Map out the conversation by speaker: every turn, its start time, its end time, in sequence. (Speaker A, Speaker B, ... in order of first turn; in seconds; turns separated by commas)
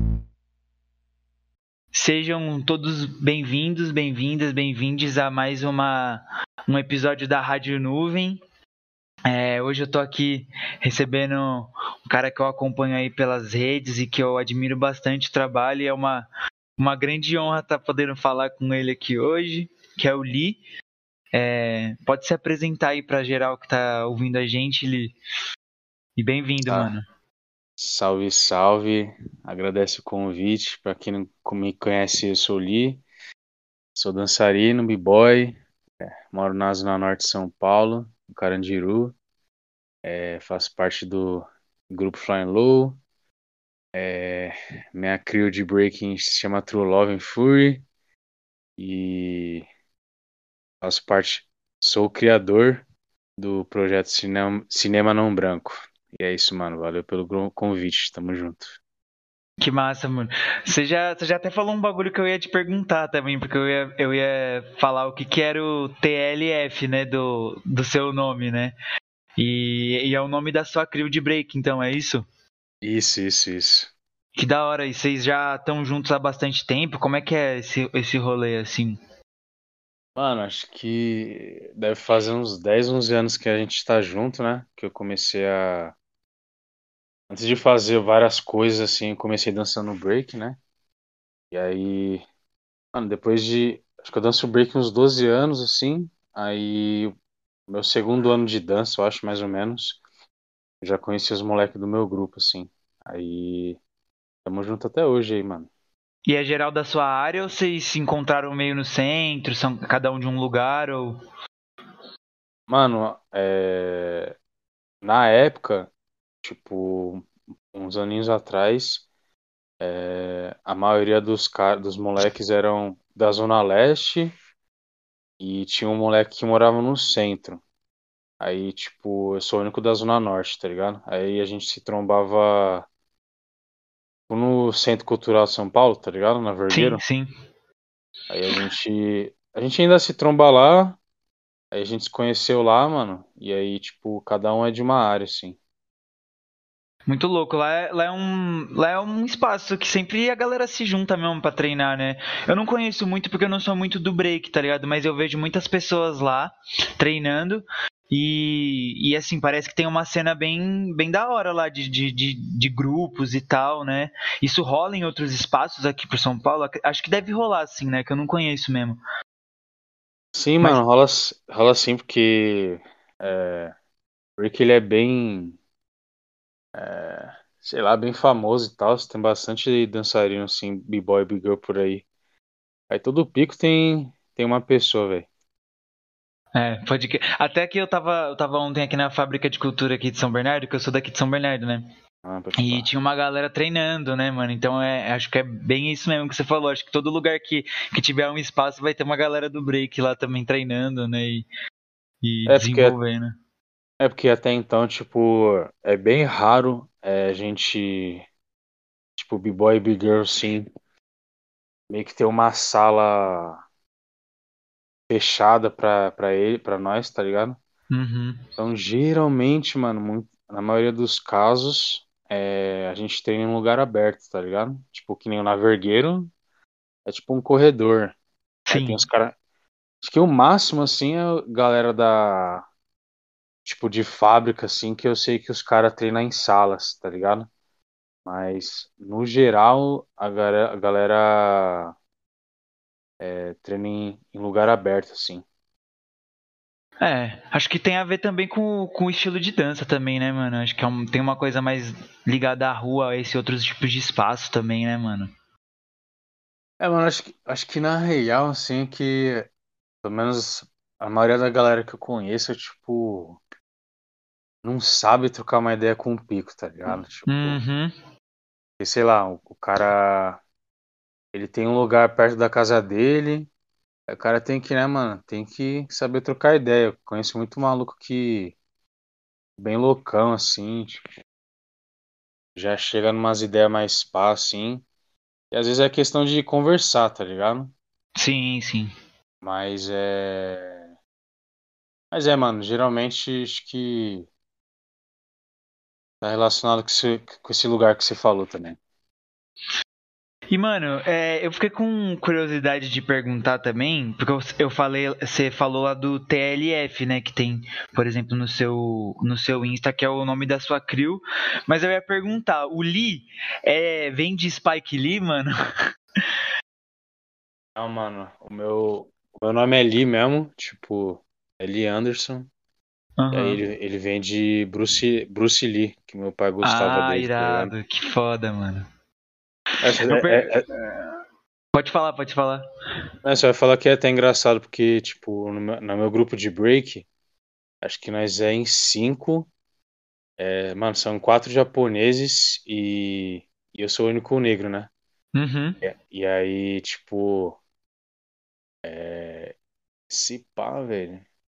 Speaker A: 1.9-8.4, Speaker A: 9.3-20.6, Speaker A: 21.3-25.2, Speaker A: 26.2-27.1, Speaker B: 27.8-33.0, Speaker B: 34.0-35.6, Speaker B: 36.3-39.1, Speaker B: 40.0-43.0, Speaker B: 43.9-47.8, Speaker B: 48.8-49.7, Speaker B: 50.8-52.8, Speaker B: 53.4-58.8, Speaker A: 59.6-68.8, Speaker A: 69.4-72.3, Speaker B: 72.8-73.9, Speaker A: 74.4-79.0, Speaker B: 80.2-86.0, Speaker B: 87.3-90.6, Speaker B: 91.5-92.2, Speaker B: 92.9-97.1, Speaker B: 97.7-100.0, Speaker B: 100.8-103.8, Speaker B: 104.5-105.7, Speaker A: 106.3-111.2, Speaker B: 112.7-114.3, Speaker B: 115.0-115.9, Speaker B: 116.4-119.1, Speaker B: 119.8-124.3, Speaker B: 125.4-127.6, Speaker B: 128.4-132.9, Speaker B: 134.3-137.0, Speaker A: 136.7-137.3, Speaker B: 138.3-141.0, Speaker B: 141.7-145.6, Speaker A: 147.1-169.0, Speaker B: 170.3-173.7, Speaker B: 174.4-175.6, Speaker B: 176.8-182.1, Speaker B: 182.9-185.3, Speaker A: 186.6-191.9, Speaker B: 192.2-192.9, Speaker A: 192.6-201.5, Speaker A: 202.2-203.3, Speaker B: 202.5-203.0, Speaker B: 204.0-208.2, Speaker B: 209.2-210.7, Speaker B: 211.9-213.6, Speaker B: 215.1-217.6, Speaker A: 217.9-218.4, Speaker B: 218.6-226.3, Speaker B: 227.1-228.2, Speaker A: 228.7-229.1, Speaker B: 228.7-229.3, Speaker B: 230.0-232.6, Speaker B: 233.7-237.5, Speaker B: 238.3-241.9, Speaker B: 243.2-245.4, Speaker A: 247.0-255.3, Speaker B: 256.8-259.5, Speaker B: 260.0-263.4, Speaker B: 264.6-267.6, Speaker A: 267.3-267.9, Speaker B: 268.8-270.4, Speaker B: 271.3-273.5, Speaker B: 274.1-278.6, Speaker B: 279.6-281.1, Speaker B: 282.6-284.8, Speaker B: 285.5-287.7, Speaker A: 288.2-288.9, Speaker B: 289.4-290.9, Speaker B: 292.1-294.3, Speaker B: 296.2-298.8, Speaker A: 300.5-315.5, Speaker B: 317.8-322.5, Speaker A: 323.2-323.6, Speaker B: 323.3-327.7, Speaker A: 326.6-328.9, Speaker B: 329.8-330.7, Speaker A: 330.0-331.2, Speaker A: 331.7-332.6, Speaker B: 333.2-337.1, Speaker B: 337.8-339.5, Speaker B: 340.4-344.9, Speaker A: 345.4-345.8, Speaker B: 345.8-347.6, Speaker B: 348.9-349.6, Speaker B: 350.1-351.2